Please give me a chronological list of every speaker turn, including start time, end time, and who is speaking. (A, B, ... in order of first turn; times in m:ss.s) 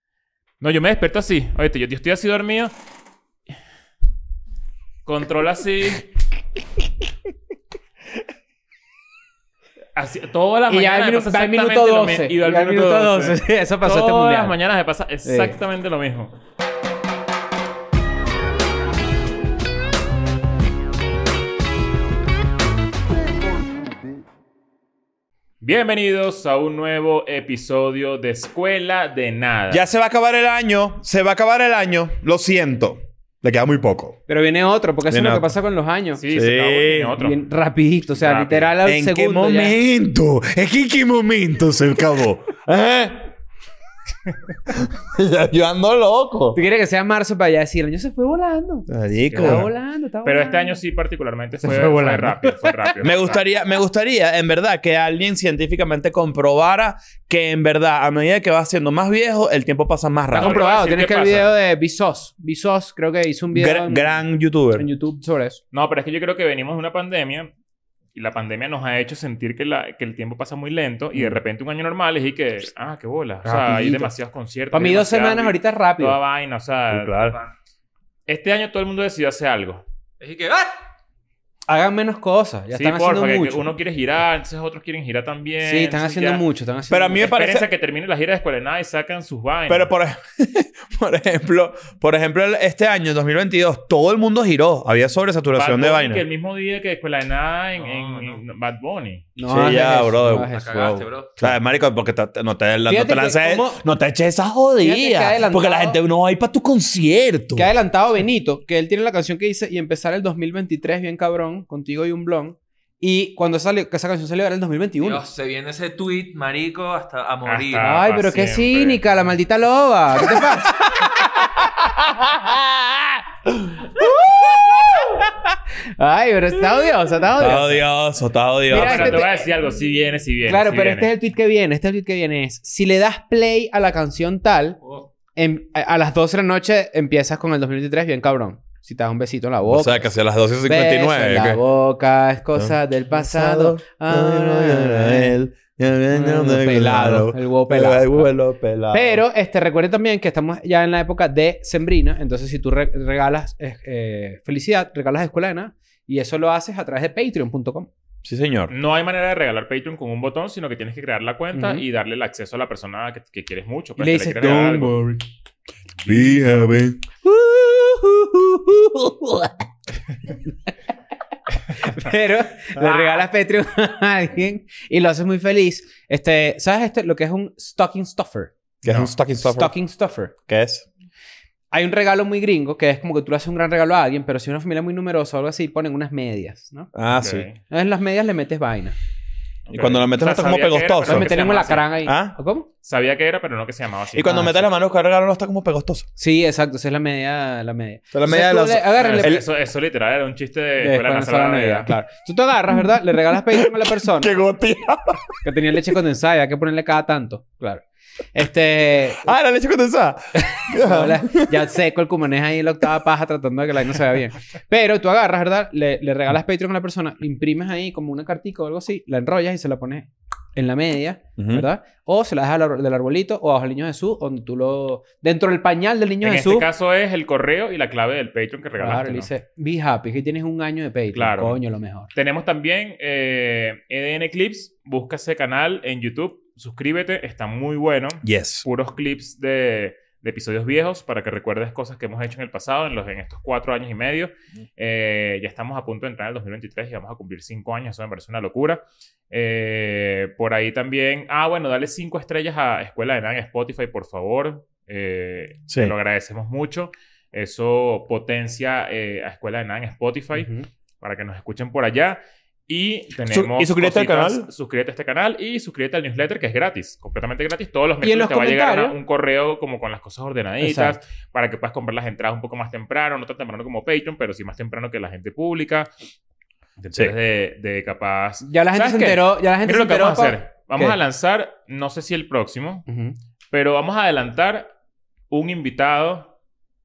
0:00.6-0:02.7 A
0:05.0-0:06.0 A
0:10.0-0:16.3 A
0:10.7-0:14.6 B
0:15.2-0:15.6 B
0:25.6-0:29.8 A
0:29.7-0:34.2 C
0:34.3-0:36.2 B
0:35.1-0:35.5 C
0:36.2-0:37.4 A
0:36.3-0:37.2 C
0:37.2-0:39.8 B
0:38.2-0:38.7 A
0:38.3-0:43.3 C
0:44.7-0:46.6 C
0:46.5-0:50.8 B
0:48.9-0:49.7 C
0:49.3-0:49.7 A
0:50.2-0:53.4 A
0:51.6-0:52.8 B
0:53.0-1:00.6 C
1:00.3-1:04.2 B
1:00.3-1:01.5 A
1:03.5-1:04.9 C
1:04.8-1:05.6 B
1:05.7-1:07.5 A
1:08.2-1:17.2 A
1:13.4-1:14.1 B
1:14.7-1:16.2 B
1:16.9-1:17.4 C
1:18.3-1:19.8 A
1:20.2-1:20.7 D
1:21.7-1:23.7 B
1:22.7-1:26.4 A
1:25.6-1:27.3 B
1:26.9-1:27.7 C
1:27.2-1:29.9 A
1:29.7-1:36.2 C
1:35.6-1:39.3 A
1:37.8-1:38.4 D
1:39.4-1:41.0 B
1:39.4-1:47.7 C
1:40.5-1:41.5 D
1:42.9-1:43.8 B
1:44.8-1:46.0 B
1:47.6-1:55.2 B
1:55.0-1:58.0 D
1:57.4-1:59.0 A
1:57.8-2:01.7 B
2:03.8-2:07.8 B
2:07.4-2:09.2 C
2:08.7-2:09.5 B
2:08.7-2:11.1 A
2:10.5-2:14.8 B
2:15.4-2:20.1 B
2:19.7-2:21.6 C
2:20.7-2:25.3 B
2:22.6-2:29.2 C
2:26.1-2:28.3 B
2:28.9-2:37.9 B
2:38.2-2:38.7 C
2:38.7-2:45.0 A
2:41.5-2:41.8 B
2:44.0-2:45.2 B
2:46.0-2:46.4 A
2:46.0-2:47.0 C
2:47.2-2:49.5 B
2:51.7-2:58.5 B
2:52.9-2:53.2 A
2:58.8-2:59.7 C
2:59.4-3:00.3 B
3:00.5-3:00.9 C
3:01.7-3:06.9 B
3:06.9-3:07.5 C
3:07.2-3:07.6 A
3:07.6-3:09.0 B
3:09.7-3:11.9 A
3:09.7-3:12.4 C
3:11.1-3:12.7 B
3:12.8-3:14.7 A
3:14.1-3:16.1 C
3:14.3-3:14.6 B
3:16.2-3:19.4 B
3:18.1-3:19.4 C
3:19.0-3:21.9 A
3:20.8-3:24.3 B
3:23.6-3:25.4 C
3:25.4-3:27.8 B
3:28.3-3:29.3 B
3:29.2-3:31.7 C
3:30.4-3:46.7 B
3:41.4-3:41.7 C
3:46.2-3:49.3 A
3:48.8-3:52.1 B
3:51.1-3:51.6 A
3:52.1-4:20.5 A
3:58.2-3:58.7 C
4:20.3-4:20.7 B
4:21.0-4:35.9 A
4:23.2-4:24.5 C
4:28.0-4:29.0 B
4:30.6-4:31.0 B
4:36.8-4:42.8 A
4:38.4-4:41.0 B
4:42.9-4:43.2 B
4:43.5-4:44.7 A
4:45.3-4:46.3 A